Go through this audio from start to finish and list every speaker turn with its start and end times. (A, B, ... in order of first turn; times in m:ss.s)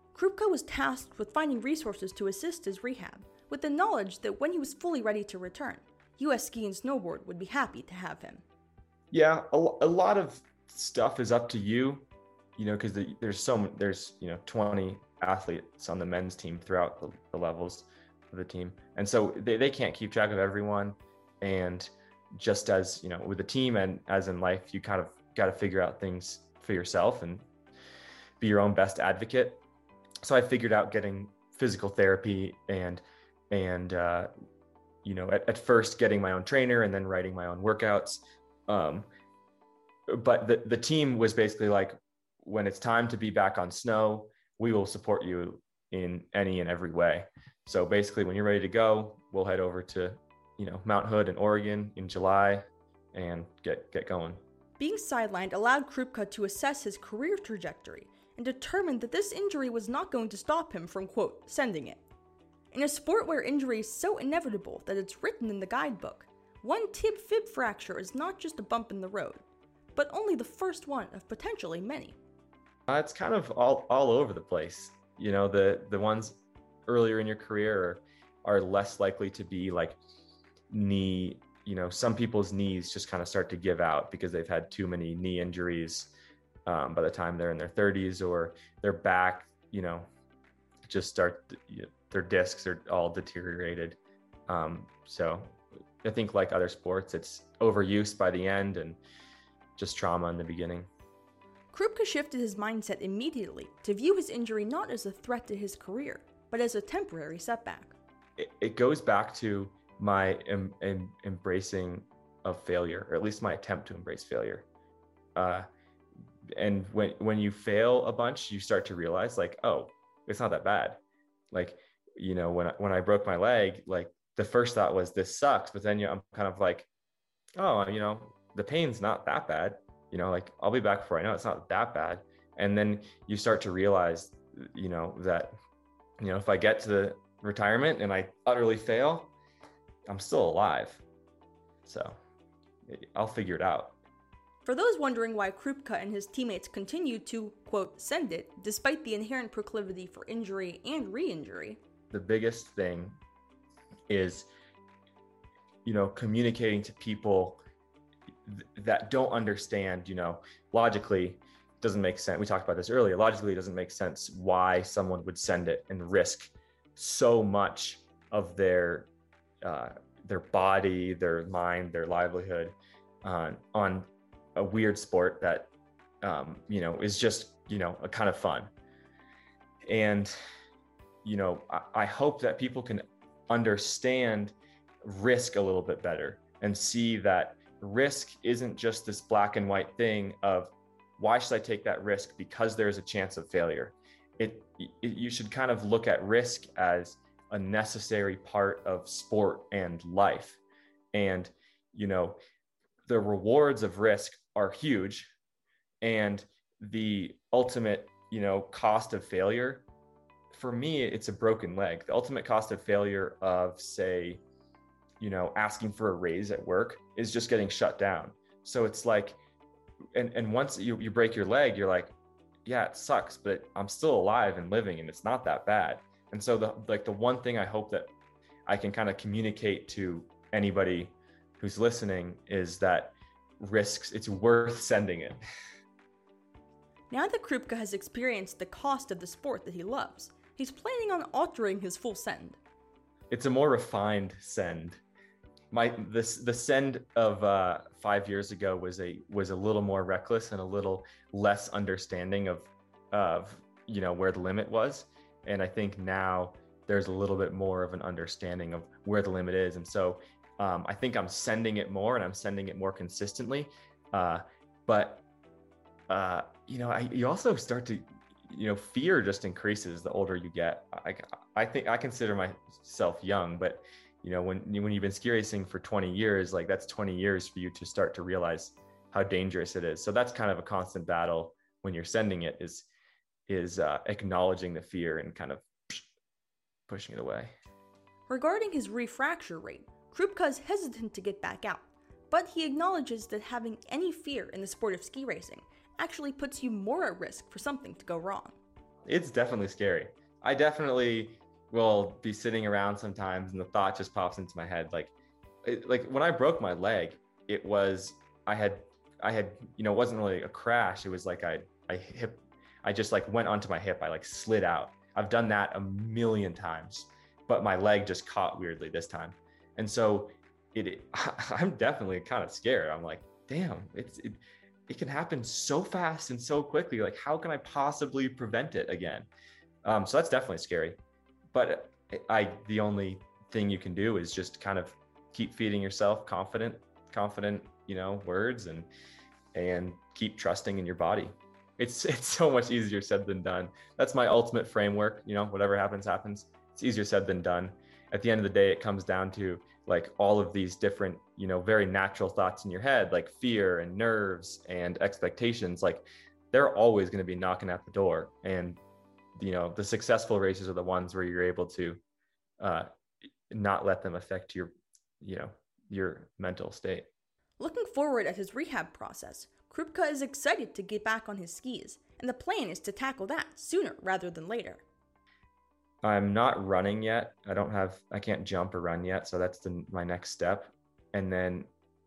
0:00.1-0:08.4 A
0:09.1-0:12.0 B
0:12.6-0:27.5 B
0:28.4-0:29.6 B
0:30.2-0:34.3 B
0:35.0-0:39.1 B
0:40.1-0:54.4 B
0:54.8-1:02.0 A
1:02.7-1:09.4 A
1:10.0-1:12.2 A
1:12.9-1:20.0 B
1:20.7-1:26.1 B
1:26.7-1:30.1 B
1:30.9-1:39.0 B
1:39.8-1:40.9 B
1:41.7-1:47.9 A
1:48.4-1:54.7 B
1:55.4-1:55.7 B
1:56.6-2:01.0 B
2:01.5-2:06.9 B
2:07.6-2:15.6 B
2:16.2-2:19.3 B
2:20.1-2:21.0 B
2:21.8-2:22.2 B
2:22.9-2:24.0 B
2:24.6-2:31.8 A
2:32.1-2:33.2 B
2:34.1-2:34.5 B
2:35.8-2:37.6 B
2:38.5-2:49.1 B
2:49.6-2:55.7 B
2:56.2-2:58.7 B
2:59.9-3:00.3 B
3:01.2-3:20.6 B
3:21.1-3:22.4 B
3:23.1-3:25.3 B
3:26.0-3:29.8 B
3:30.5-3:34.4 B
3:35.2-3:39.4 B
3:40.2-3:42.1 B
3:42.7-3:48.1 B
3:48.7-3:55.4 B
3:57.1-4:02.6 A
4:03.3-4:05.0 B
4:05.7-4:25.2 B
4:26.1-4:42.9 B
4:43.5-4:46.1 B
4:46.9-4:47.5 B
4:48.3-4:58.6 A
4:59.1-5:05.1 B
5:05.6-5:29.3 B
5:29.8-5:31.0 B
5:31.5-5:38.9 B
5:39.5-5:58.8 B
5:59.4-6:02.0 B
6:02.6-6:02.9 B
6:03.5-6:07.1 B
6:07.6-6:14.8 A
6:16.0-6:21.7 B